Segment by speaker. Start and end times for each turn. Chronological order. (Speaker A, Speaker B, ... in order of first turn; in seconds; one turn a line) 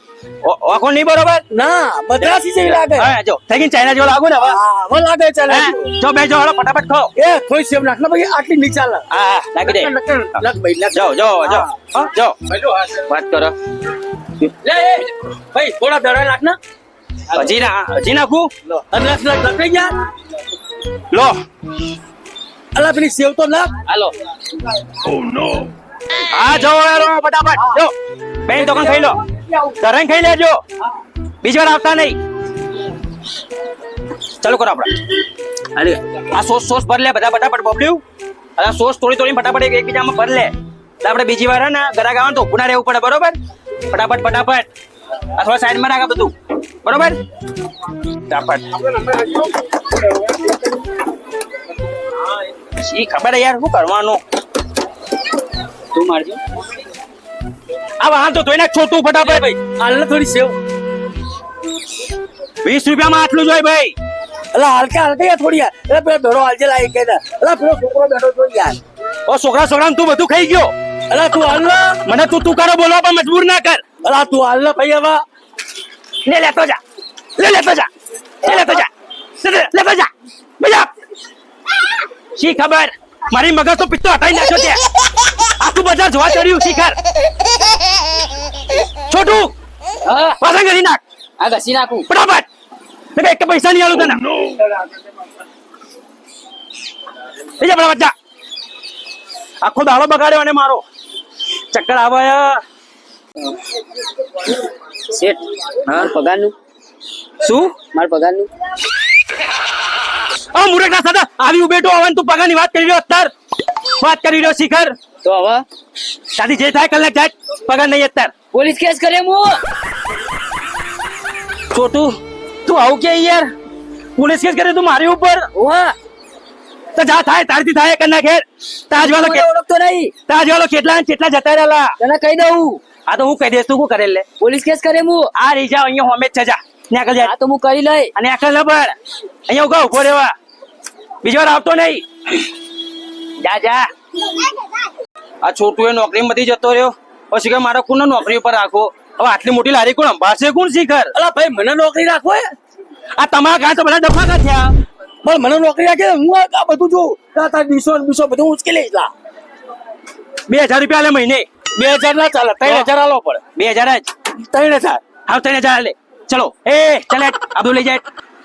Speaker A: 0.4-1.4
Speaker B: 1.5-3.1
Speaker A: 2.2-4.6
Speaker B: 4.4-5.9
Speaker A: 5.5-7.1
Speaker B: 7.2-9.0
Speaker A: 9.1-9.9
Speaker B: 9.6-11.8
Speaker A: 10.9-12.4
Speaker B: 12.5-13.0
Speaker A: 13.0-13.5
Speaker B: 14.6-16.6
Speaker A: 17.3-18.5
Speaker B: 18.7-19.9
Speaker A: 21.1-21.4
Speaker B: 22.7-23.7
Speaker C: 23.9-24.1
Speaker A: 26.3-27.9
Speaker A: 28.4-29.2
Speaker B: 28.5-29.1
Speaker A: 29.8-30.6
Speaker A: 31.4-32.2
Speaker A: 34.4-34.9
Speaker A: 35.8-38.0
Speaker A: 38.6-40.5
Speaker A: 41.0-43.4
Speaker A: 43.9-44.7
Speaker A: 45.3-46.3
Speaker A: 46.8-47.2
Speaker A: 48.3-48.8
Speaker A: 52.8-54.2
Speaker C: 55.9-56.4
Speaker A: 58.0-59.5
Speaker B: 59.3-60.5
Speaker A: 62.6-63.9
Speaker B: 64.5-68.8
Speaker A: 69.3-70.7
Speaker B: 71.1-72.0
Speaker A: 72.0-73.8
Speaker B: 74.0-75.2
Speaker A: 76.2-76.8
Speaker A: 77.4-77.9
Speaker A: 78.4-78.9
Speaker A: 79.4-80.1
Speaker A: 80.6-80.9
Speaker A: 82.3-87.0
Speaker A: 89.1-89.5
Speaker C: 90.0-90.4
Speaker A: 90.4-91.0
Speaker C: 91.4-92.1
Speaker A: 92.1-92.5
Speaker A: 93.1-94.2
Speaker A: 97.6-98.1
Speaker A: 99.6-100.8
Speaker A: 101.7-102.6
Speaker C: 105.1-106.5
Speaker A: 107.4-107.8
Speaker C: 107.8-108.5
Speaker A: 110.5-113.3
Speaker A: 114.0-115.0
Speaker C: 115.2-115.6
Speaker A: 116.3-118.3
Speaker C: 118.5-119.6
Speaker A: 121.7-123.5
Speaker A: 124.2-125.5
Speaker C: 125.5-125.9
Speaker A: 126.9-129.5
Speaker C: 128.9-130.1
Speaker A: 130.2-131.9
Speaker C: 132.0-132.8
Speaker A: 133.1-134.2
Speaker C: 134.4-135.3
Speaker A: 135.3-137.3
Speaker C: 137.2-138.1
Speaker A: 138.1-138.9
Speaker A: 139.5-140.3
Speaker A: 141.2-142.5
Speaker A: 143.4-143.9
Speaker A: 145.4-151.1
Speaker B: 151.1-152.5
Speaker A: 153.2-154.7
Speaker B: 155.2-159.1
Speaker A: 160.5-161.4
Speaker B: 161.7-163.4
Speaker A: 163.6-164.1
Speaker B: 164.4-165.0
Speaker A: 165.2-168.0